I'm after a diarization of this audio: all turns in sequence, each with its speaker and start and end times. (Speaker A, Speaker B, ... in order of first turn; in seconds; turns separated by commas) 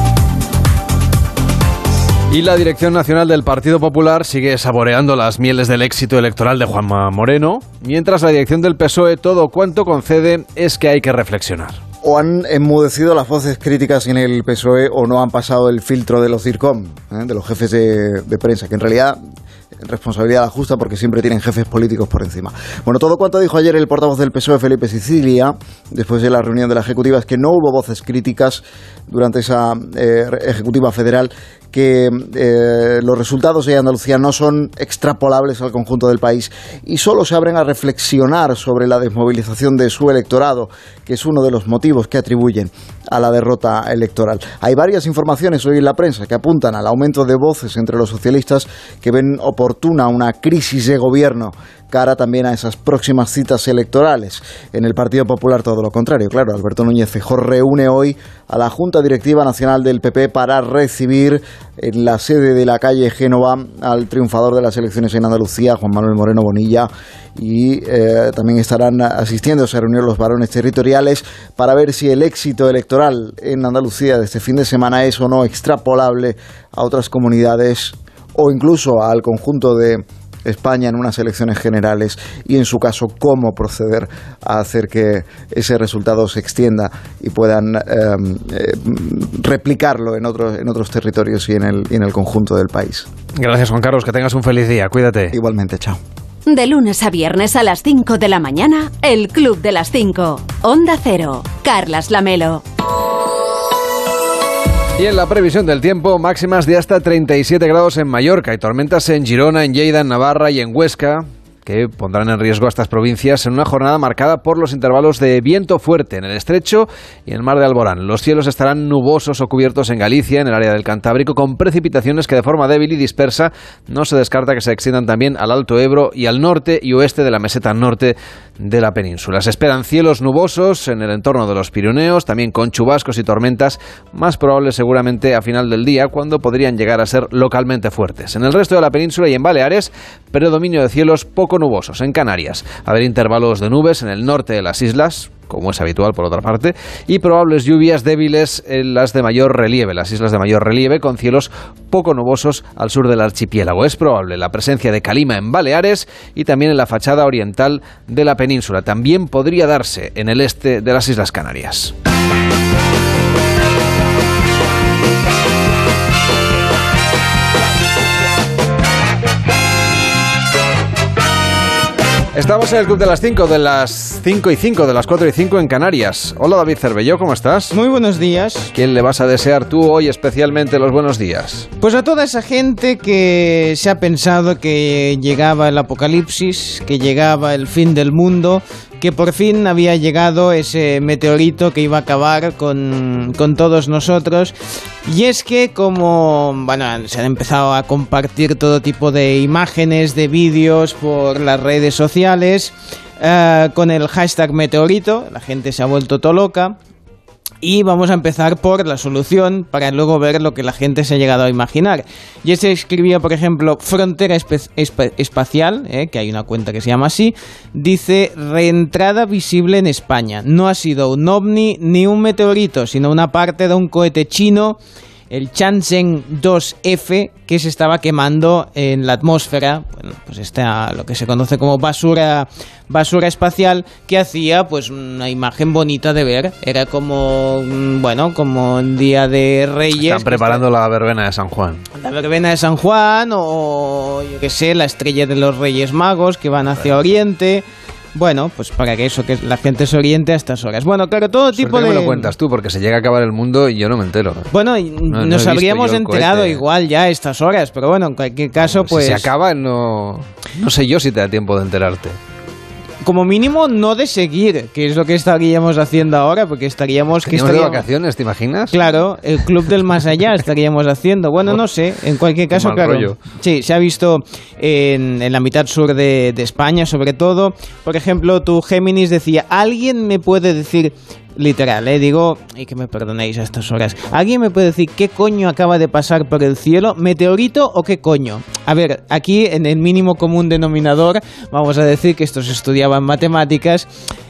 Speaker A: 2.3-11.8, Speaker B: 12.0-19.2, Speaker B: 19.8-93.1, Speaker A: 93.4-95.3, Speaker B: 95.3-96.0, Speaker C: 96.5-102.6, Speaker A: 105.0-161.9, Speaker A: 172.3-177.8, Speaker D: 177.7-178.7, Speaker A: 178.7-181.7, Speaker D: 181.8-206.8, Speaker D: 207.6-224.8, Speaker D: 225.3-240.6, Speaker A: 239.9-241.8, Speaker D: 242.0-252.3, Speaker A: 251.5-254.5, Speaker D: 254.5-259.3, Speaker A: 255.1-256.6, Speaker A: 258.6-262.2, Speaker D: 263.0-267.8, Speaker A: 267.2-268.8, Speaker D: 268.7-293.9, Speaker A: 272.5-273.2